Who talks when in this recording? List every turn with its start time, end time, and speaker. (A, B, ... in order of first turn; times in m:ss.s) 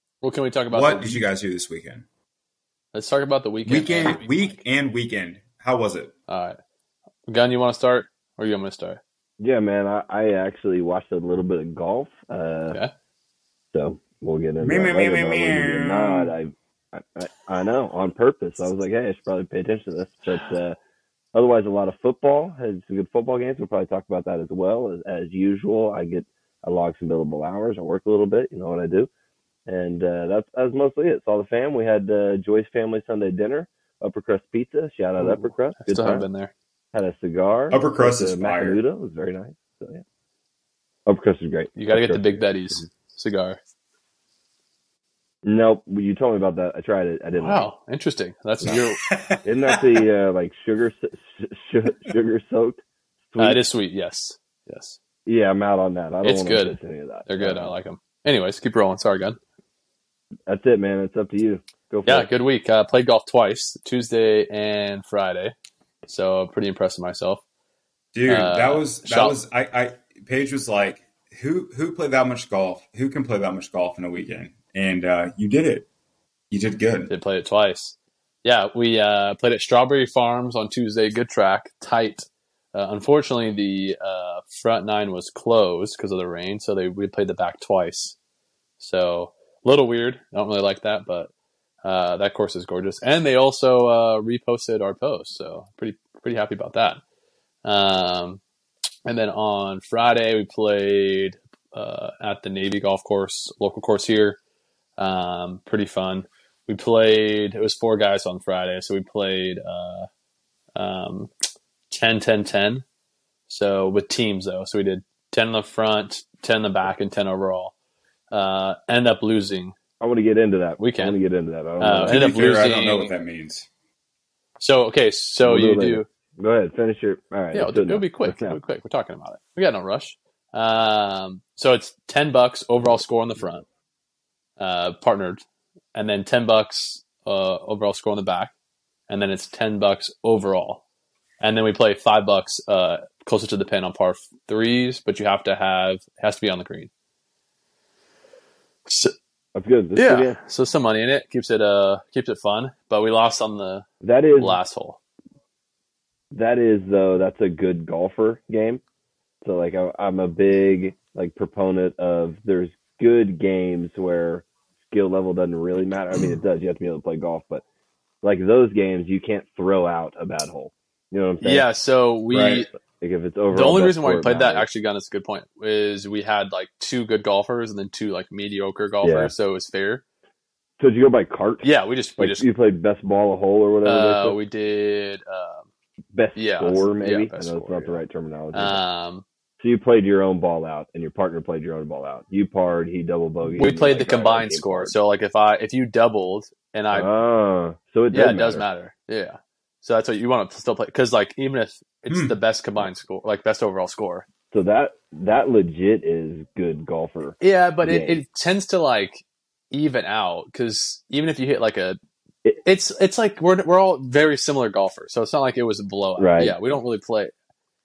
0:00.2-0:01.3 A
0:00.7-0:02.0 B
0:02.9-0:04.6 A
0:03.6-0:06.1 B
0:06.3-0:06.6 A
0:07.3-0:09.0 A
0:09.4-0:12.8 C
0:13.7-0:20.8 C
0:14.6-0:16.3 B
0:21.3-0:29.1 C
0:29.7-0:36.2 C
0:35.2-0:36.5 A
0:36.9-0:40.0 C
0:37.7-0:38.8 B
0:41.0-0:42.4 C
0:41.8-0:43.6 A
0:45.4-0:47.7 C
0:47.4-0:49.0 A
0:48.6-0:50.0 B
0:49.4-0:52.8 C
0:53.3-0:53.6 C
0:53.4-0:55.0 A
0:55.2-0:57.8 C
0:56.2-0:59.4 A
1:00.5-1:02.3 C
1:02.0-1:05.5 A
1:06.1-1:07.4 A
1:08.1-1:15.8 B
1:08.3-1:09.4 A
1:16.5-1:17.1 B
1:17.1-1:28.2 A
1:28.8-1:31.3 A
1:31.8-1:37.0 A
1:37.6-1:38.4 A
1:39.0-1:44.4 A
1:45.0-1:50.1 A
1:50.8-1:51.3 A
1:51.9-1:52.8 A
1:53.5-1:57.7 A
1:58.3-1:59.8 A
2:00.0-2:02.3 C
2:00.8-2:01.2 A
2:01.8-2:03.1 A
2:02.1-2:03.7 B
2:04.6-2:06.1 A
2:05.4-2:08.6 C
2:07.5-2:13.6 A
2:14.6-2:15.4 A
2:15.9-2:18.5 A
2:19.1-2:20.8 A
2:21.4-2:26.9 A
2:28.9-2:29.1 A
2:29.5-2:30.4 C
2:30.0-2:33.8 A
2:34.0-2:34.6 C
2:34.4-2:35.0 A
2:36.3-2:38.8 C
2:39.4-2:47.6 C
2:48.2-2:51.7 C
2:51.4-2:52.7 A
2:52.3-2:52.6 B
2:53.0-2:54.7 C
2:53.5-3:00.0 A
2:59.0-2:59.3 C
3:00.8-3:01.6 C
3:01.6-3:02.5 A
3:02.2-3:04.4 C
3:03.8-3:05.6 A
3:06.1-3:08.8 C
3:06.4-3:08.0 A
3:08.5-3:09.2 A
3:09.6-3:14.9 C
3:13.5-3:17.1 A
3:16.9-3:18.6 C
3:18.1-3:24.2 A
3:22.1-3:22.3 B
3:24.5-3:28.2 C
3:27.4-3:32.0 A
3:32.6-3:37.3 A
3:36.2-3:36.6 C